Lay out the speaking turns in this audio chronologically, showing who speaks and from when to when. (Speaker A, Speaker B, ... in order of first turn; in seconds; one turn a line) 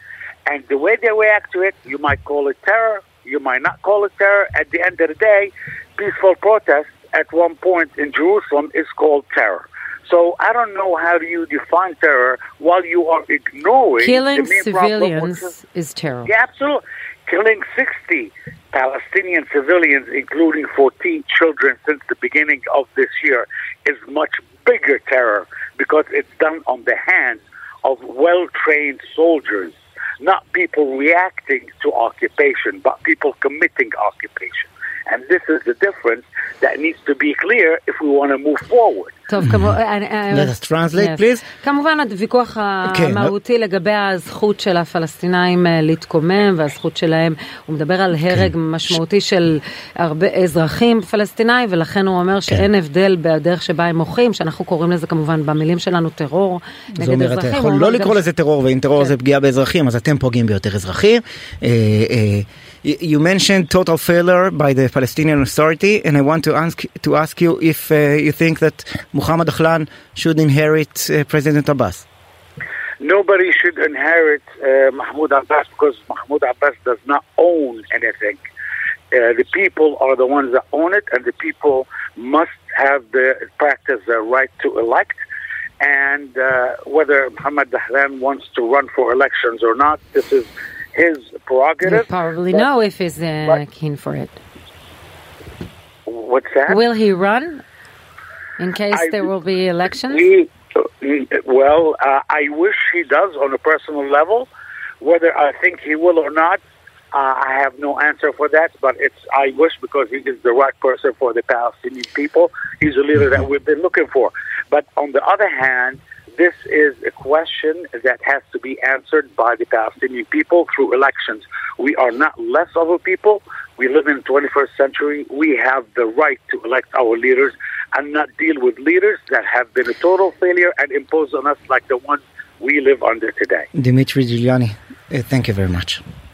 Speaker A: 0.5-15.5
Speaker B: 14.0-16.3
Speaker A: 16.2-39.1
Speaker B: 39.3-58.3
Speaker C: 39.4-39.8
Speaker C: 40.3-41.4
Speaker C: 42.9-43.3
Speaker C: 57.0-72.0
Speaker A: 73.0-78.4
Speaker A: 79.1-85.2
Speaker A: 85.8-92.1
Speaker B: 91.8-94.4
Speaker A: 96.1-96.8
Speaker B: 96.7-97.6
Speaker B: 98.6-100.3
Speaker A: 100.1-100.5
Speaker A: 101.0-104.5
Speaker A: 105.0-106.6
Speaker A: 107.1-133.7
Speaker C: 133.8-136.0